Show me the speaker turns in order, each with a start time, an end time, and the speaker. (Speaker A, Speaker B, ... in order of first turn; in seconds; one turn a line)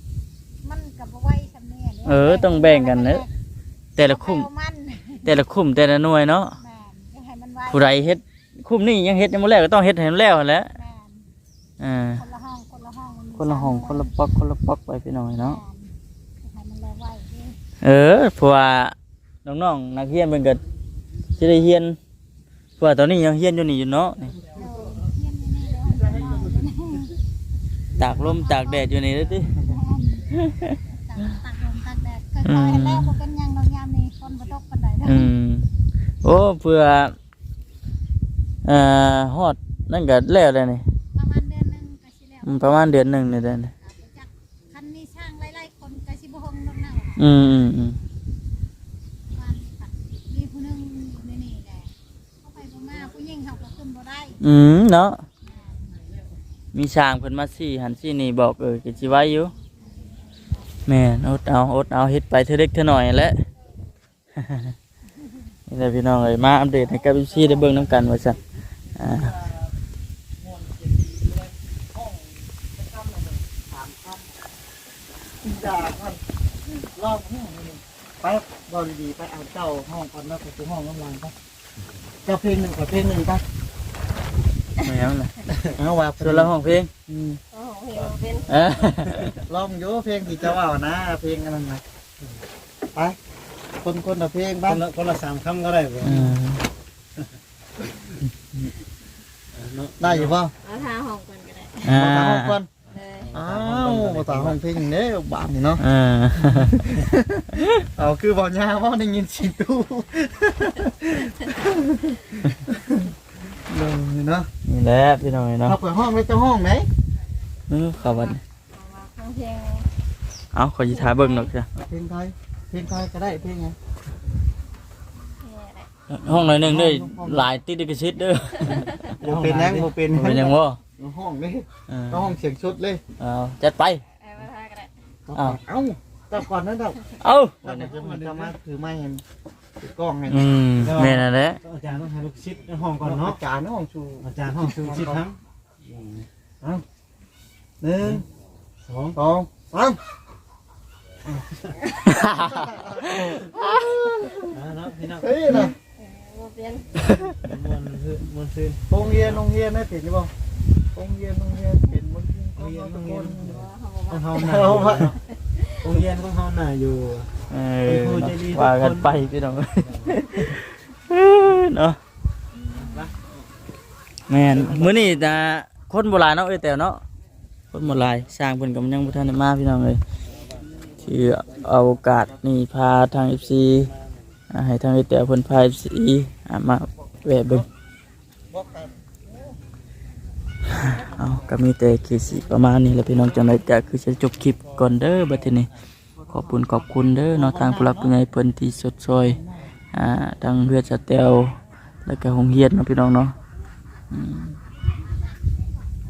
Speaker A: 0.6-3.3
Speaker B: 2.0-3.3
Speaker B: 4.0-4.5
Speaker A: 4.1-5.3
Speaker B: 5.2-6.6
Speaker A: 6.6-8.1
Speaker B: 7.7-10.7
Speaker A: 10.7-11.3
Speaker B: 11.8-12.2
Speaker A: 12.2-14.2
Speaker B: 13.4-15.6
Speaker A: 15.5-17.6
Speaker B: 17.8-18.9
Speaker B: 19.4-20.6
Speaker B: 21.4-22.0
Speaker B: 22.8-24.4
Speaker A: 24.5-27.2
Speaker B: 28.0-29.6
Speaker A: 28.4-28.9
Speaker A: 29.5-35.2
Speaker B: 30.3-30.7
Speaker B: 32.4-33.2
Speaker B: 35.0-35.7
Speaker B: 36.2-37.1
Speaker B: 38.6-40.8
Speaker A: 41.1-43.0
Speaker B: 42.5-43.7
Speaker A: 43.8-47.2
Speaker B: 47.2-48.0
Speaker A: 49.3-54.4
Speaker B: 54.4-55.2
Speaker A: 55.5-56.0
Speaker B: 56.7-59.5
Speaker A: 60.0-60.6
Speaker B: 60.9-63.4
Speaker B: 64.4-64.8
Speaker B: 65.7-68.4
Speaker B: 69.0-69.4
Speaker C: 69.1-69.5
Speaker C: 70.4-74.4
Speaker C: 75.4-76.2
Speaker C: 76.8-81.3
Speaker C: 82.2-83.4
Speaker B: 84.8-85.3
Speaker C: 85.8-86.5
Speaker B: 86.2-86.9
Speaker C: 87.1-87.4
Speaker D: 87.5-88.6
Speaker B: 88.5-89.4
Speaker C: 89.3-91.8
Speaker C: 93.8-94.8
Speaker E: 94.7-96.2
Speaker B: 96.0-96.6
Speaker C: 96.0-96.3
Speaker E: 99.5-100.4
Speaker C: 100.0-100.5
Speaker D: 100.6-102.0
Speaker B: 101.9-102.6
Speaker C: 101.9-102.7
Speaker D: 102.9-103.3
Speaker E: 103.3-104.6
Speaker C: 103.3-105.8
Speaker B: 105.8-106.9
Speaker C: 106.4-113.1
Speaker C: 113.7-114.5
Speaker B: 114.7-115.8
Speaker C: 115.6-116.9
Speaker B: 117.7-118.4
Speaker D: 118.0-119.9
Speaker B: 120.5-121.7
Speaker D: 120.8-121.5
Speaker C: 121.8-123.8
Speaker D: 125.4-125.9
Speaker B: 126.1-129.1
Speaker C: 126.2-127.5
Speaker D: 128.7-129.1
Speaker C: 129.2-133.0
Speaker E: 129.3-129.9
Speaker B: 130.1-130.8
Speaker B: 131.9-132.3
Speaker B: 133.2-134.0
Speaker D: 134.2-134.9
Speaker C: 135.3-137.0
Speaker B: 137.2-137.6
Speaker C: 137.6-139.2
Speaker E: 137.7-138.5
Speaker C: 139.8-140.5
Speaker B: 140.3-141.6
Speaker E: 140.8-143.4
Speaker C: 143.0-145.2
Speaker E: 144.2-146.3
Speaker C: 147.8-148.2
Speaker E: 148.8-149.2
Speaker C: 149.2-150.0
Speaker B: 152.1-152.7
Speaker C: 152.3-154.6
Speaker E: 154.5-155.4
Speaker C: 155.2-155.8
Speaker D: 156.0-157.3
Speaker E: 157.5-159.4
Speaker C: 158.9-160.3
Speaker C: 160.9-163.7
Speaker E: 162.6-165.2
Speaker D: 163.5-165.9
Speaker C: 164.3-165.2
Speaker E: 165.8-167.3
Speaker B: 167.5-172.0
Speaker E: 167.8-169.2
Speaker E: 172.7-173.2
Speaker B: 174.3-177.0
Speaker B: 177.7-180.0
Speaker E: 180.3-181.0
Speaker B: 181.0-183.9
Speaker B: 184.5-187.7
Speaker C: 188.5-189.6
Speaker C: 190.7-191.6
Speaker B: 190.8-195.7
Speaker B: 196.3-199.4
Speaker C: 197.3-198.2
Speaker C: 199.2-199.7
Speaker B: 199.9-203.3
Speaker B: 204.1-204.6